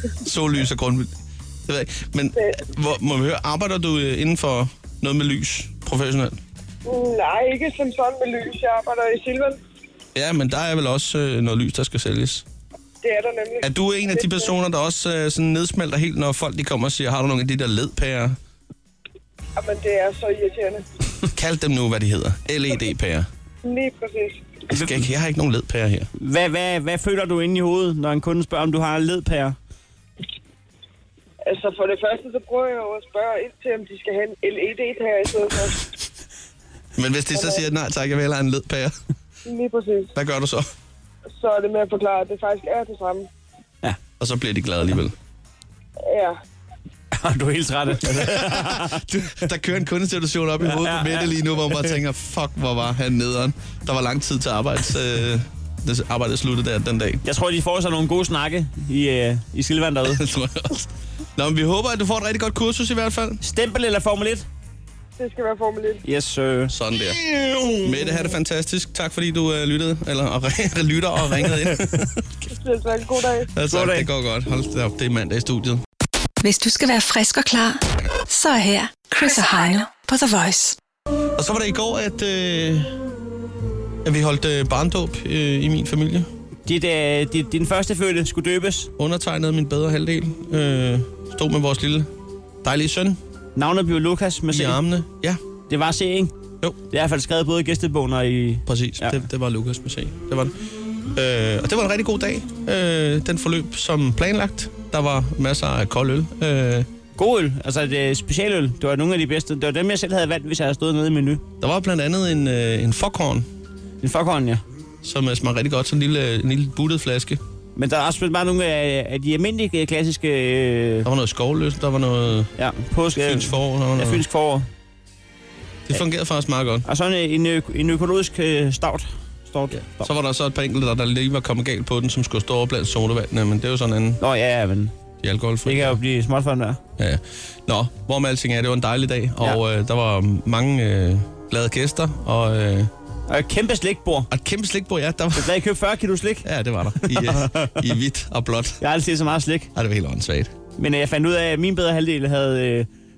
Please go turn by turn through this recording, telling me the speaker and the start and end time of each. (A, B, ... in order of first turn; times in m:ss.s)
0:00.2-0:01.1 A
0:01.7-0:06.4 A
0:06.8-0:09.6 B
0:10.1-0:12.4 A
0:13.0-0:14.5 B
0:13.6-0:18.4 A
0:19.6-0:20.8 B
0:21.3-0:23.3 A
0:23.6-0:24.5 B
0:24.7-0:26.1 A
0:24.7-0:25.0 C
0:26.2-0:29.6 C
0:31.4-0:35.8 B
0:37.0-0:39.0 A
0:37.3-0:37.6 B
0:39.4-0:40.1 B
0:40.1-0:40.7 A
0:41.4-0:43.3 B
0:44.2-0:45.1 A
0:46.0-0:46.4 B
0:47.1-0:49.0 C
0:48.1-0:57.2 A
0:50.6-0:51.9 C
0:57.2-1:00.2 C
1:00.1-1:03.4 A
1:03.4-1:04.4 C
1:05.2-1:06.0 B
1:06.0-1:06.7 C
1:06.7-1:07.2 A
1:07.4-1:07.7 C
1:07.8-1:12.2 A
1:12.5-1:13.5 B
1:13.5-1:15.8 A
1:13.7-1:14.1 C
1:16.4-1:20.8 D
1:21.4-1:23.0 A
1:24.0-1:26.3 A
1:26.6-1:28.9 C
1:29.0-1:32.1 A
1:32.6-1:33.2 A
1:33.6-1:34.8 C
1:34.5-1:35.4 A
1:35.7-1:36.3 C
1:36.9-1:39.2 C
1:38.6-1:40.5 A
1:41.1-1:46.9 A
1:47.2-1:51.4 C
1:51.6-1:53.5 A
1:54.0-1:54.6 C
1:55.0-1:57.4 A
1:57.8-2:01.1 C
2:01.0-2:02.5 A
2:02.6-2:04.7 C
2:03.2-2:04.2 A
2:05.9-2:06.8 A
2:06.8-2:10.1 C
2:09.7-2:14.2 A
2:14.2-2:14.9 C
2:15.2-2:16.0 A
2:15.6-2:16.8 C
2:17.0-2:22.9 A
2:23.3-2:24.3 C
2:24.3-2:25.5 A
2:25.3-2:26.5 C
2:26.4-2:28.8 A
2:27.0-2:27.8 C
2:28.8-2:29.7 C
2:29.7-2:30.5 A
2:30.8-2:32.9 C